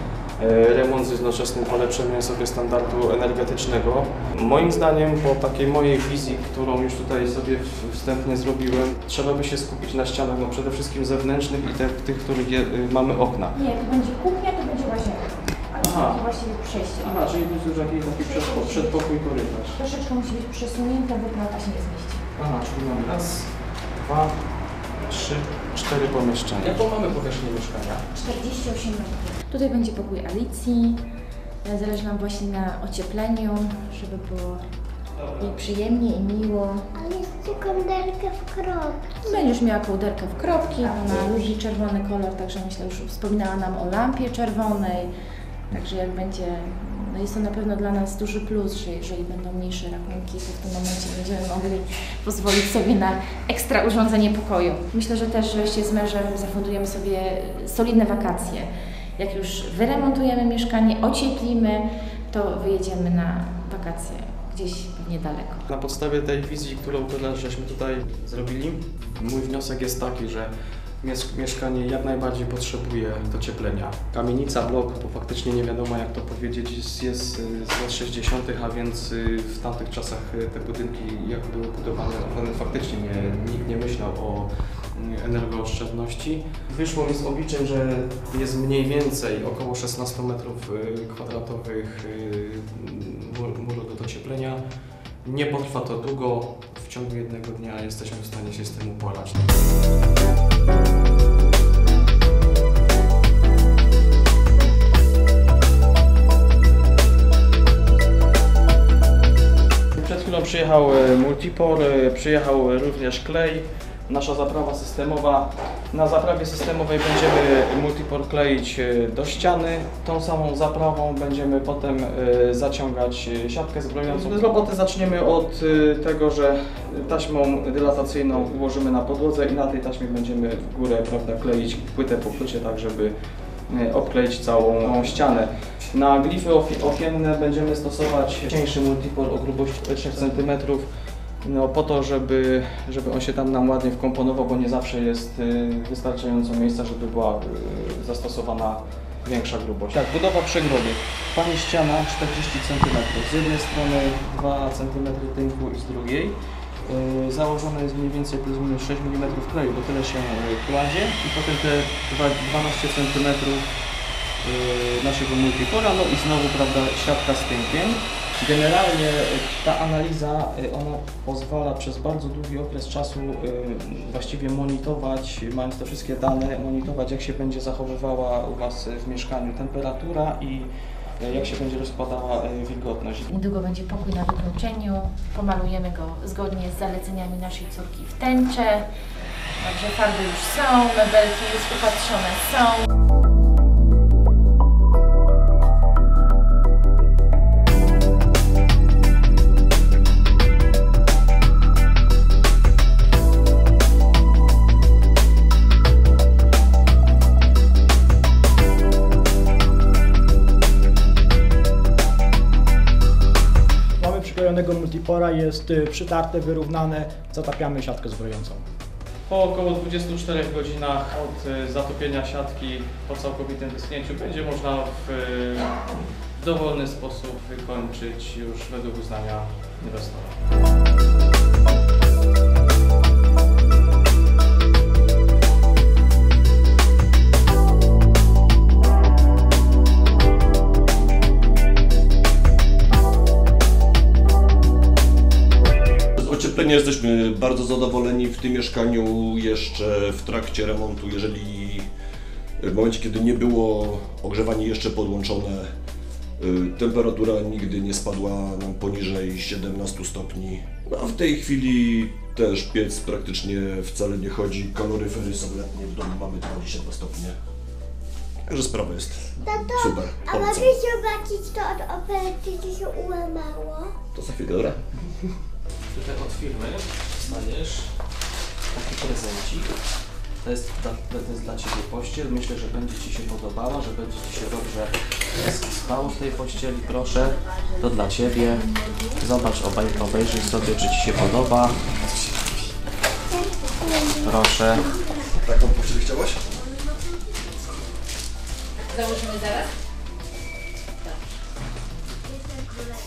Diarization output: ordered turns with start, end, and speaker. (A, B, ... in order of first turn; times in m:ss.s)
0:00.4-0:13.6 A
0:13.5-0:17.2 B
0:15.8-0:16.2 A
0:17.0-0:19.8 A
0:18.2-0:19.0 B
0:19.8-0:22.2 B
0:22.4-0:24.4 A
0:25.0-0:28.0 A
0:28.1-0:31.1 B
0:31.6-0:34.6 B
0:35.4-0:36.9 B
0:36.9-0:39.4 C
0:39.2-0:45.1 B
0:45.7-1:05.7 B
1:05.7-1:34.6 A
1:35.2-1:39.5 A
1:50.0-2:13.1 A
2:13.7-2:20.9 A
2:21.4-2:43.6 A
2:44.4-3:03.3 A
3:03.3-3:08.9 B
3:09.6-3:12.9 B
3:34.0-3:38.6 D
3:39.3-3:45.8 A
3:46.4-3:50.4 A
4:06.2-4:11.9 E
4:12.6-4:15.7 E
4:16.4-4:27.4 E
4:28.5-4:30.7 E
4:29.4-4:34.0 C
4:34.1-4:34.8 E
4:35.9-4:37.9 A
4:38.7-4:39.7 A
4:40.4-4:51.8 A
4:53.3-4:54.3 C
4:54.2-4:54.9 A
4:55.4-4:56.4 E
4:59.0-4:59.6 B